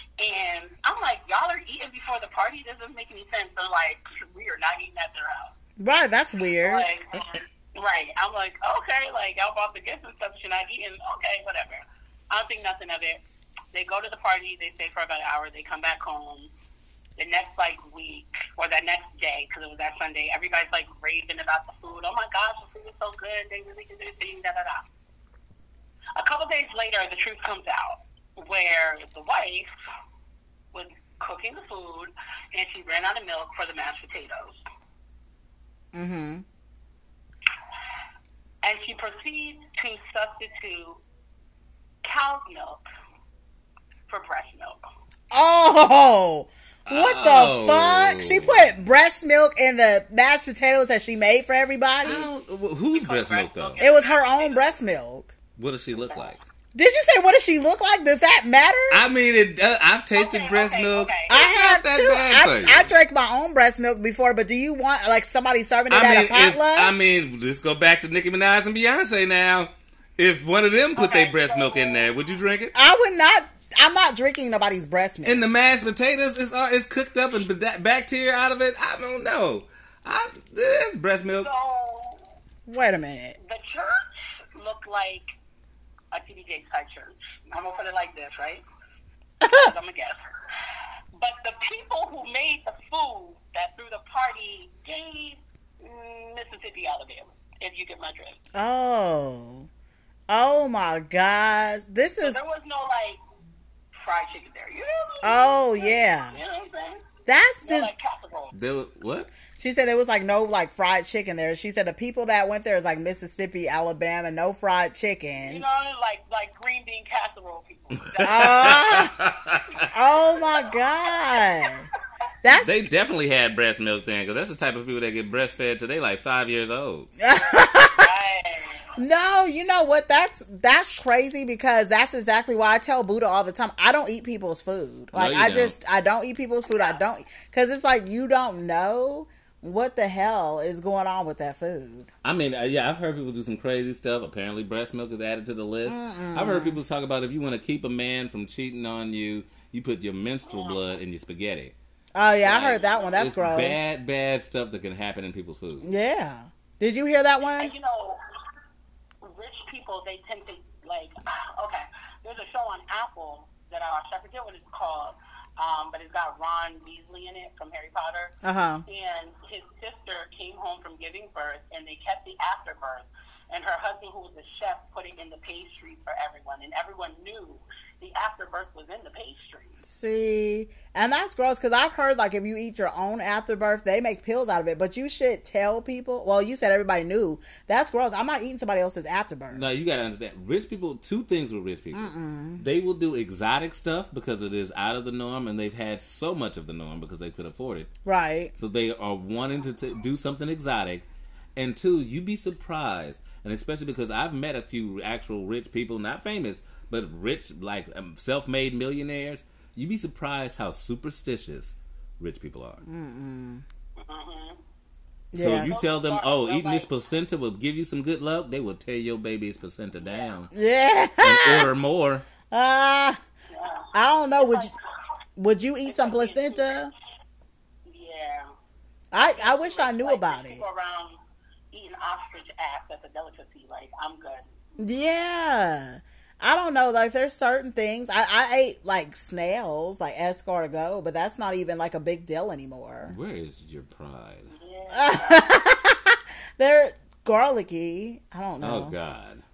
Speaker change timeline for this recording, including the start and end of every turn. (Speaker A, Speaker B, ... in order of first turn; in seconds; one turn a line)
Speaker A: 0.2-5.5
Speaker B: 5.8-6.9
Speaker A: 6.6-13.2
Speaker A: 13.7-16.5
Speaker A: 17.2-24.8
Speaker A: 26.1-29.7
Speaker A: 30.7-34.6
Speaker B: 35.9-36.4
Speaker A: 38.6-41.0
Speaker A: 42.0-42.8
Speaker A: 44.1-44.8
Speaker B: 45.3-52.3
Speaker C: 46.9-48.8
Speaker C: 52.0-53.8
Speaker A: 52.9-54.8
Speaker B: 53.8-55.3
Speaker C: 55.5-56.4
Speaker A: 56.1-56.4
Speaker B: 56.7-59.0
Speaker C: 58.9-62.9
Speaker A: 60.1-61.4
Speaker B: 61.3-66.9
Speaker C: 65.9-72.7
Speaker A: 71.0-72.1
Speaker B: 72.7-75.4
Speaker C: 75.2-81.5
Speaker A: 81.4-82.2
Speaker B: 82.7-83.3
Speaker A: 83.4-85.2
Speaker A: 86.1-88.6
Speaker B: 89.4-89.7
Speaker A: 89.4-90.2
Speaker A: 91.1-98.4
Speaker B: 98.5-99.7
Speaker B: 100.3-102.4
Speaker A: 102.2-103.2
Speaker A: 103.9-107.0
Speaker B: 105.2-106.4
Speaker B: 107.3-107.9
Speaker A: 107.6-108.5
Speaker C: 108.5-109.3
Speaker B: 109.6-115.6
Speaker A: 115.4-119.0
Speaker C: 118.2-119.8
Speaker B: 118.2-119.1
Speaker A: 119.7-120.7
Speaker B: 119.9-121.8
Speaker B: 122.4-122.7
Speaker C: 122.5-127.1
Speaker B: 127.2-128.1
Speaker A: 127.6-128.8
Speaker B: 129.0-142.1
Speaker C: 135.1-135.7
Speaker A: 136.7-137.0
Speaker C: 142.2-151.7
Speaker B: 145.8-146.8
Speaker A: 150.5-150.8
Speaker B: 152.1-153.8
Speaker C: 152.4-155.8
Speaker A: 152.7-153.2
Speaker B: 155.8-157.7
Speaker A: 157.6-158.2
Speaker A: 159.2-179.8
Speaker B: 168.4-168.8
Speaker B: 179.8-189.6
Speaker C: 189.5-197.9
Speaker B: 191.9-192.6
Speaker B: 198.1-198.5
Speaker C: 198.6-201.0
Speaker C: 201.6-212.8
Speaker B: 212.8-213.6
Speaker A: 214.0-214.6
Speaker B: 215.3-215.7
Speaker C: 215.3-220.5
Speaker A: 215.6-216.9
Speaker A: 220.0-220.3
Speaker B: 220.5-221.7
Speaker C: 221.2-222.2
Speaker B: 222.5-223.2
Speaker A: 223.5-224.7
Speaker B: 223.9-224.7
Speaker B: 225.4-226.9
Speaker A: 225.8-226.9
Speaker A: 227.8-228.5
Speaker B: 229.1-230.6
Speaker A: 229.2-231.2
Speaker A: 231.7-234.5
Speaker B: 234.8-243.2
Speaker C: 243.1-244.5
Speaker A: 244.5-245.7
Speaker B: 244.9-248.9
Speaker C: 248.6-249.4